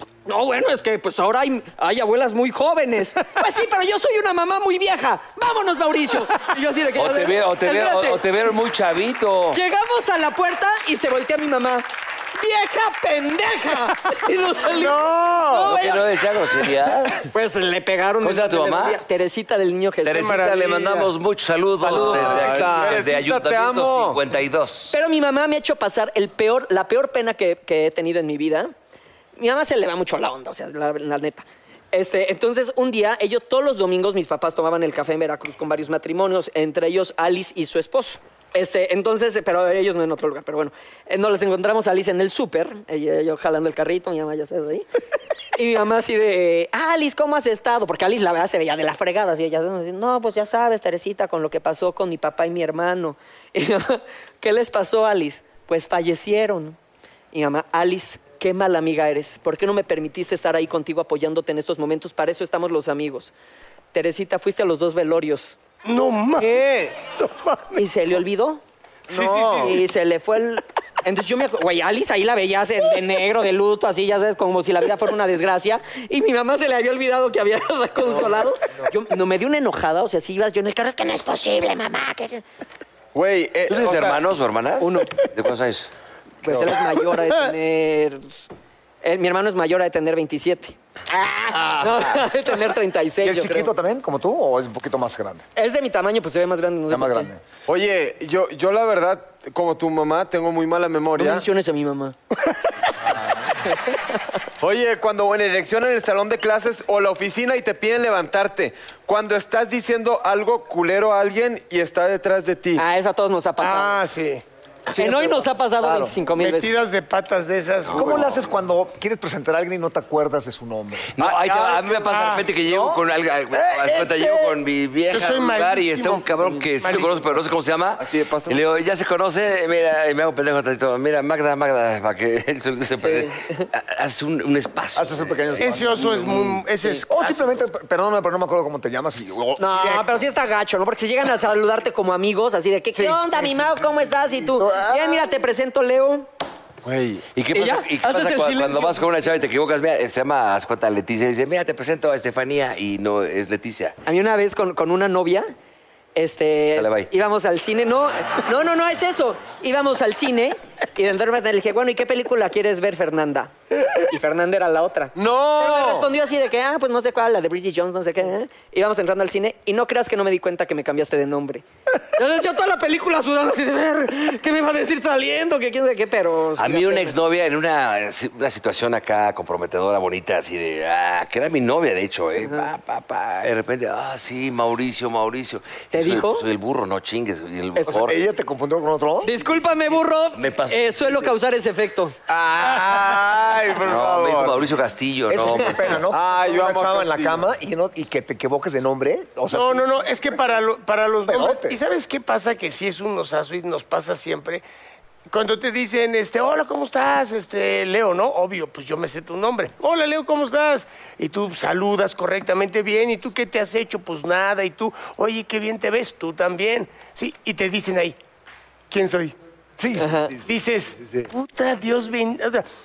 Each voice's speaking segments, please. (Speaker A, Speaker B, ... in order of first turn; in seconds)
Speaker A: 0.2-8.2, 9.5-11.8, 12.4-16.1, 17.2-20.3, 24.9-28.7, 29.4-44.9, 45.5-56.8, 57.3-63.3, 63.9-65.6, 67.7-68.6, 69.4-82.4, 84.8-85.2, 86.4-88.5, 89.0-93.7, 95.5-97.3, 101.2-102.2, 112.8-114.0, 115.0-116.8, 133.0-133.7, 139.6-146.3, 147.5-149.0, 154.1-155.5, 156.1-163.5, 164.0-177.1, 185.9-186.4, 189.2-192.2, 220.0-220.3
Speaker B: 7.0-9.6, 15.6-17.1, 18.2-19.0, 20.0-24.9, 83.7-85.9, 117.8-118.4, 121.1-135.7, 147.3-153.9, 156.7-157.1, 176.6-188.2, 189.7-191.3, 193.8-196.0
Speaker C: 14.7-15.8, 21.8-24.1, 66.4-66.9, 69.1-69.5, 83.1-84.2, 86.5-86.9, 97.7-101.4, 104.6-112.8, 121.2-122.0, 128.0-128.6, 146.8-147.3, 165.2-166.1, 192.3-194.6, 196.1-197.4
Speaker D: 20.1-21.1, 65.8-67.8, 69.1-69.8, 113.6-114.4, 116.3-118.0, 122.1-122.5, 125.1-127.2, 135.6-137.1, 199.5-204.6, 205.3-218.2, 218.9-219.3, 220.4-222.7
Speaker E: 21.8-23.1, 69.1-69.4, 93.2-95.4, 96.9-97.4, 114.9-116.1, 117.9-121.1, 122.5-124.6, 134.9-140.2, 142.9-143.7, 144.4-145.3, 187.9-189.3, 195.3-200.5, 201.2-201.8, 219.8-220.5